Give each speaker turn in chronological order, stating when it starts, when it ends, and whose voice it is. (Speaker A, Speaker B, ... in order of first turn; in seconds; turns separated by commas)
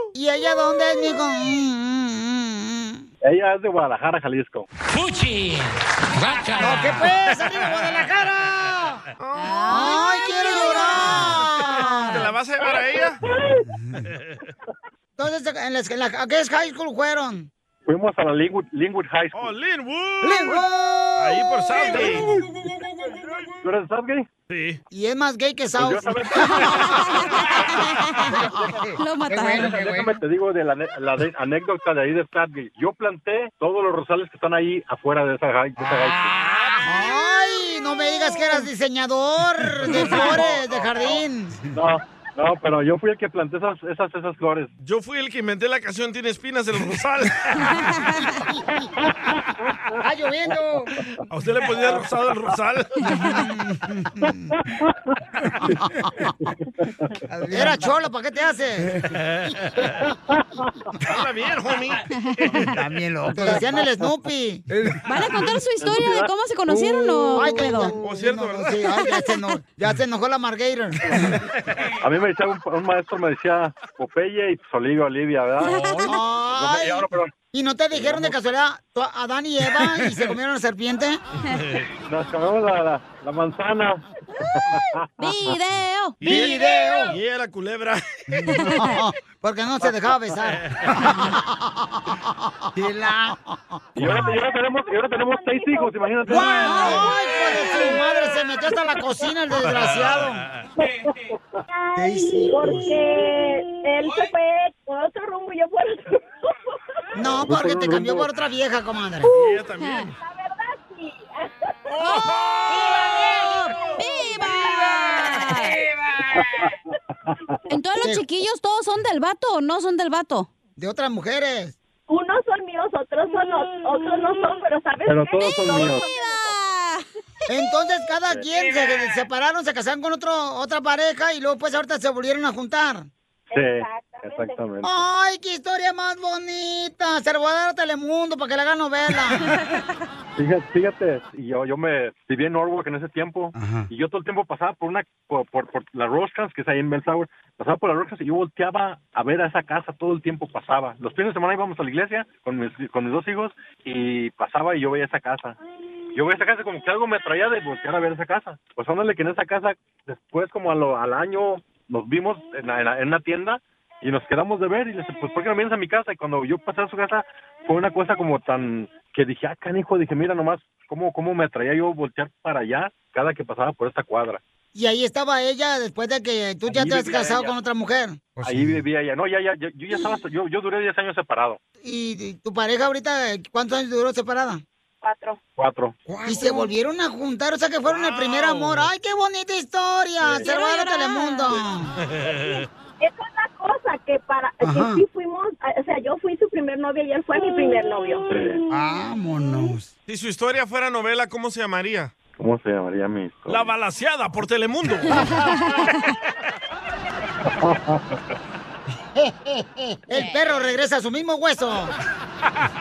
Speaker A: 0.1-3.0, Speaker B: 3.2-4.7, Speaker A: 6.6-9.0, Speaker C: 9.2-10.0, Speaker D: 9.4-12.3, Speaker A: 9.7-12.2, Speaker C: 11.1-13.2, Speaker A: 13.7-14.0, Speaker A: 15.2-17.5, Speaker B: 17.9-19.5, Speaker C: 19.3-22.3, Speaker A: 20.2-22.3, Speaker B: 23.6-24.3, Speaker C: 24.5-24.8, Speaker A: 24.9-26.9, Speaker B: 25.8-26.9, Speaker A: 28.3-30.2, Speaker D: 29.0-29.8, Speaker B: 29.5-36.5, Speaker A: 35.8-41.6, Speaker C: 36.4-36.9, Speaker C: 39.9-41.2, Speaker B: 41.7-44.7, Speaker C: 44.8-47.9, Speaker A: 50.0-51.0, Speaker C: 51.3-53.1, Speaker A: 53.1-54.5, Speaker B: 56.5-57.1, Speaker A: 57.3-59.0, Speaker C: 59.1-59.9, Speaker B: 60.3-60.7, Speaker C: 61.1-62.6, Speaker D: 62.2-62.7, Speaker A: 62.7-65.0, Speaker D: 65.1-68.0, Speaker B: 65.8-66.3, Speaker A: 66.7-71.3, Speaker C: 68.0-69.0, Speaker D: 69.0-69.3, Speaker B: 71.9-77.3, Speaker D: 75.6-76.2, Speaker A: 75.8-81.2, Speaker B: 77.9-78.3, Speaker C: 81.5-81.8, Speaker B: 82.0-84.0, Speaker B: 84.5-84.8, Speaker D: 85.2-86.5, Speaker C: 86.2-88.0, Speaker A: 86.2-87.2, Speaker A: 88.3-91.3, Speaker D: 88.5-89.0, Speaker C: 90.5-91.0, Speaker A: 92.7-93.5, Speaker B: 94.0-97.1, Speaker E: 94.3-96.6, Speaker A: 96.3-100.5, Speaker D: 96.5-97.1, Speaker C: 99.6-100.7, Speaker B: 100.8-101.4, Speaker A: 102.0-103.0, Speaker E: 102.0-106.5, Speaker A: 107.2-109.3, Speaker B: 107.2-108.3, Speaker C: 109.3-110.2, Speaker D: 109.8-110.1, Speaker E: 110.2-111.9, Speaker D: 112.0-115.8, Speaker E: 114.6-115.0, Speaker B: 116.3-116.8, Speaker D: 117.7-120.5, Speaker A: 120.8-121.8, Speaker E: 122.1-126.6, Speaker B: 125.1-126.0, Speaker D: 125.4-127.0, Speaker A: 127.5-133.1, Speaker E: 133.5-134.7, Speaker B: 133.5-135.0, Speaker A: 134.8-139.5, Speaker B: 140.4-155.6, Speaker A: 143.6-143.9, Speaker B: 156.2-174.4, Speaker A: 174.7-178.8, Speaker B: 176.7-177.6, Speaker B: 178.4-181.6, Speaker A: 181.8-184.6, Speaker E: 185.0-185.4, Speaker B: 185.6-185.9, Speaker A: 186.1-191.9, Speaker C: 187.9-188.9, Speaker D: 190.4-191.6, Speaker C: 192.2-192.6, Speaker E: 193.0-198.3, Speaker A: 194.6-195.0, Speaker B: 198.3-198.6, Speaker A: 198.7-199.9, Speaker C: 200.1-202.1, Speaker B: 202.4-203.7, Speaker C: 203.5-205.4, Speaker D: 205.2-205.9, Speaker B: 207.4-208.2, Speaker A: 209.2-211.9